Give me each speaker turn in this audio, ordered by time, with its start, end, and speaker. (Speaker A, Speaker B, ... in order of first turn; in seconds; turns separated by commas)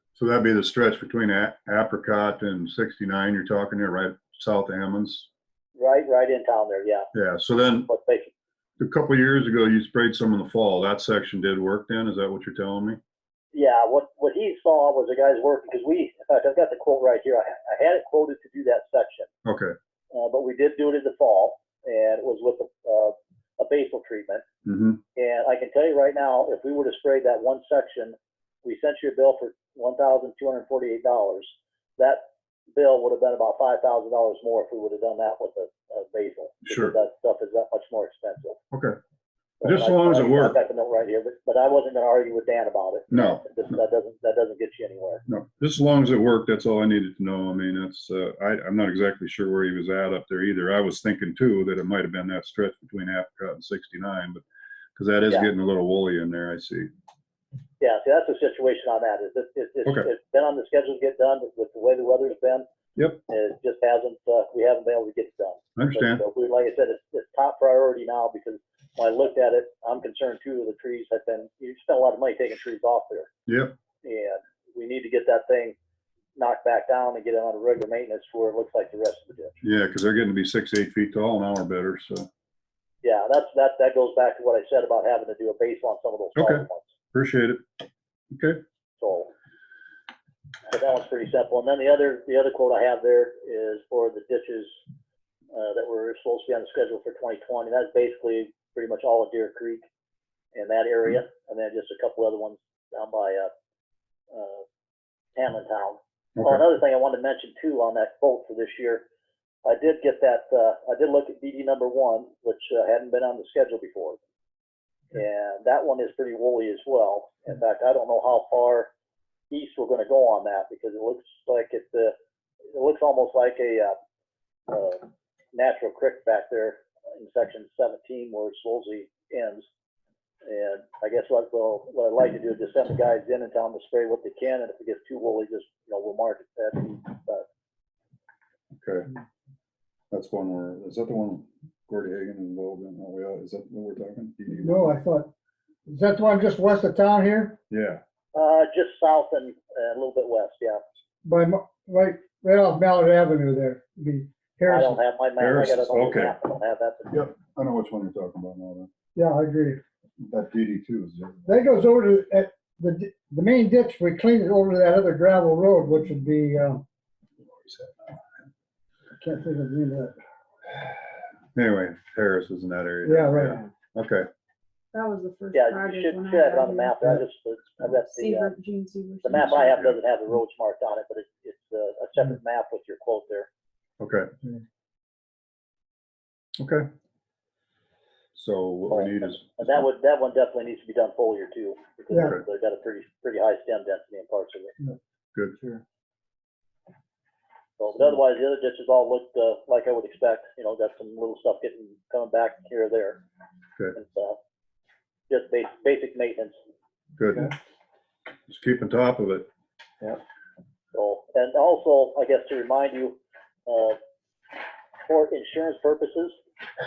Speaker A: 0.2-5.3, Speaker B: 5.8-7.1, Speaker A: 7.1-7.9, Speaker B: 7.9-8.3, Speaker A: 8.8-13.0, Speaker B: 13.5-19.3, Speaker A: 19.4-19.8, Speaker B: 20.1-24.4, Speaker A: 24.7-25.0, Speaker B: 25.2-32.2, Speaker B: 32.8-38.6, Speaker A: 36.6-37.0, Speaker A: 38.7-39.0, Speaker B: 39.6-45.2, Speaker A: 39.6-40.6, Speaker A: 43.1-43.8, Speaker A: 45.3-54.4, Speaker A: 55.0-56.9, Speaker B: 57.8-62.7, Speaker A: 59.9-60.1, Speaker B: 63.3-73.3, Speaker A: 65.8-66.2, Speaker A: 73.5-73.7, Speaker B: 74.0-75.8, Speaker B: 76.4-79.6, Speaker A: 79.6-82.3, Speaker B: 83.0-86.9, Speaker A: 86.4-87.6, Speaker A: 88.3-88.6, Speaker B: 89.0-89.3, Speaker B: 90.7-94.8, Speaker B: 95.5-99.8, Speaker B: 100.5-103.5, Speaker B: 104.3-104.6, Speaker B: 105.4-109.0, Speaker A: 106.4-106.6, Speaker B: 109.7-114.2, Speaker B: 115.1-118.9, Speaker B: 119.5-122.2, Speaker B: 122.7-124.0, Speaker B: 124.7-129.7, Speaker B: 130.4-137.5, Speaker A: 138.8-139.1, Speaker A: 140.1-144.9, Speaker C: 144.5-145.3, Speaker C: 145.9-147.6, Speaker A: 147.7-148.0, Speaker B: 148.3-150.8, Speaker C: 151.2-155.0, Speaker B: 154.7-157.2, Speaker A: 155.4-156.4, Speaker A: 157.1-158.9, Speaker C: 159.2-159.8, Speaker A: 160.2-161.5, Speaker C: 161.5-166.8, Speaker A: 167.4-168.2, Speaker C: 169.2-170.2, Speaker A: 171.6-174.3, Speaker C: 173.1-173.6, Speaker D: 174.9-177.2, Speaker B: 175.5-178.5, Speaker D: 178.1-179.7, Speaker B: 179.2-183.5, Speaker A: 179.7-180.0, Speaker A: 184.0-184.3, Speaker A: 186.6-186.9, Speaker A: 188.3-189.8, Speaker B: 188.9-194.8, Speaker B: 197.8-203.2, Speaker B: 203.9-204.4, Speaker B: 205.3-206.6, Speaker A: 207.2-207.5, Speaker A: 208.5-209.5, Speaker B: 210.9-214.0, Speaker B: 215.1-216.4